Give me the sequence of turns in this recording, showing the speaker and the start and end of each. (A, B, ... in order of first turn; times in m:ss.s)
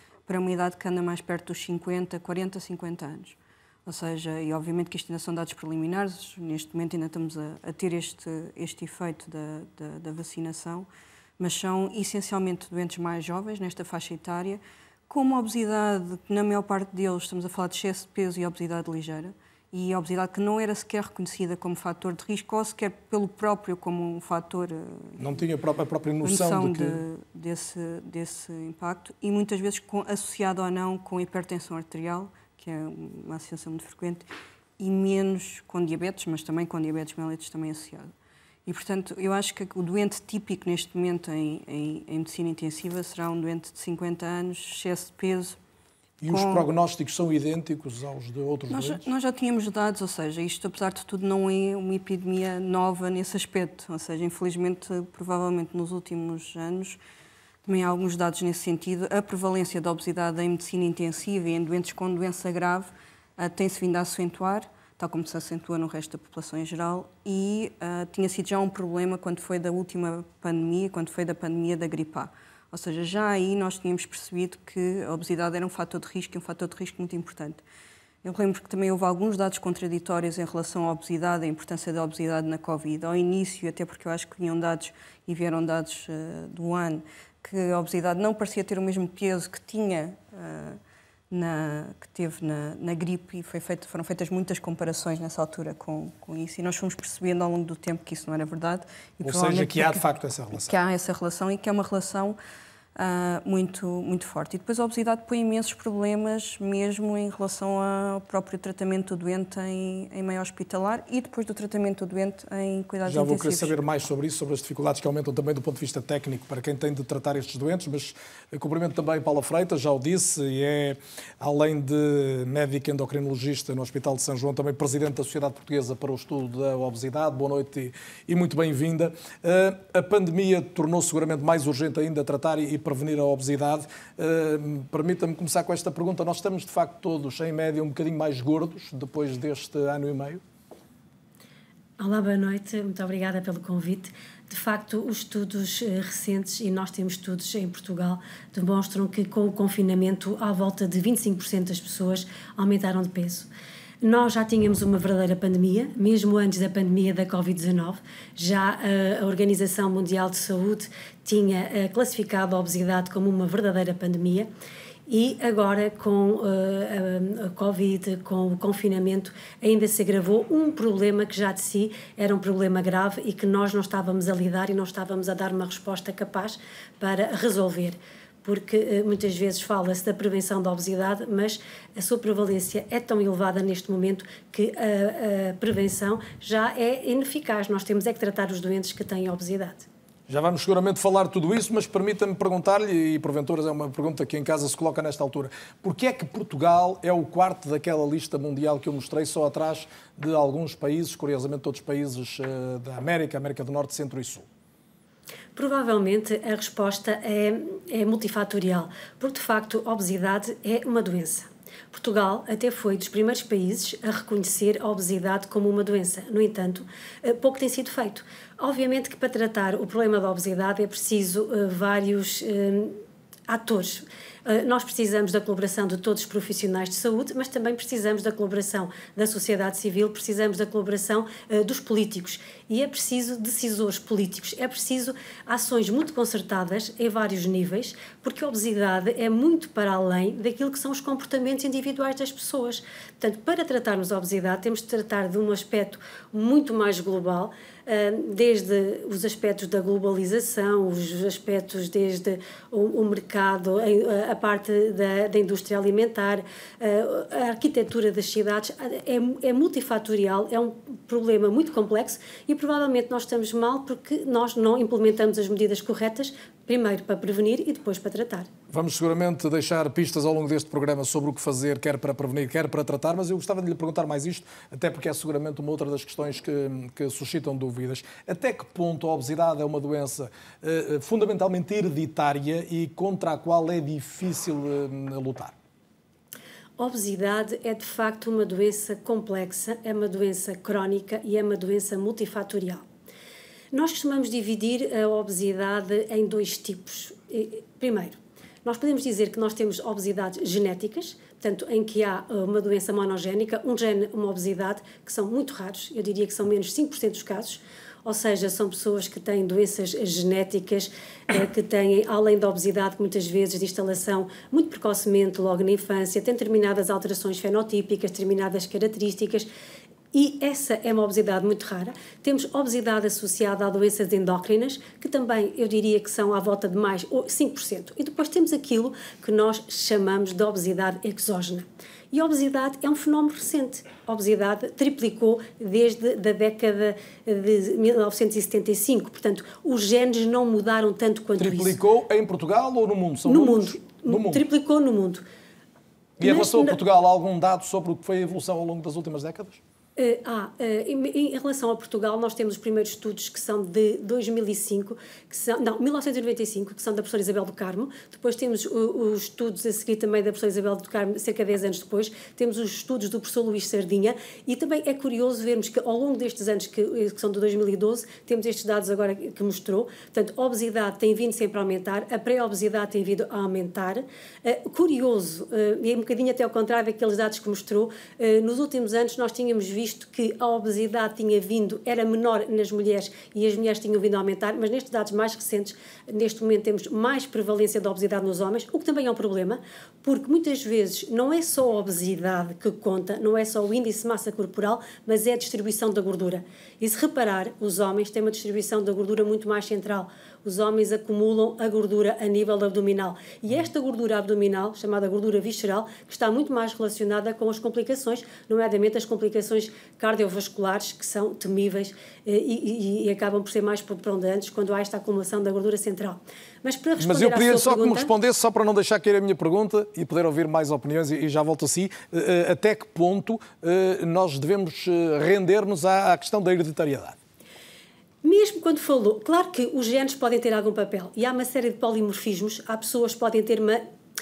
0:00.3-0:10.9 A
0:11.4-0:25.2 A
0:25.2-0:27.0 B
0:26.2-0:34.3 A
0:34.8-0:38.1 A
0:38.6-0:45.6 A
0:46.2-0:49.0 B
0:46.3-0:46.7 A
0:48.7-0:57.0 A
0:57.6-1:17.6 A
1:18.2-1:30.8 A
1:31.3-1:42.4 A
1:39.2-1:40.8 B
1:43.0-1:53.7 A
1:53.0-2:20.4 B
2:22.0-2:33.5 C
2:34.0-2:44.5 C
2:45.1-3:09.8 C
3:10.3-3:24.4 B
3:25.5-3:42.9 C
3:43.5-4:28.5 C
4:28.7-4:45.5 B
4:46.8-4:52.8 C
4:53.7-5:19.5 C
5:20.1-5:41.8 C
5:41.4-5:44.4 B
5:43.3-5:45.2 C
5:46.2-5:49.6 B
5:46.2-5:46.8 C
5:50.0-6:58.1 C
6:57.0-7:07.2 B
7:08.2-7:13.8 C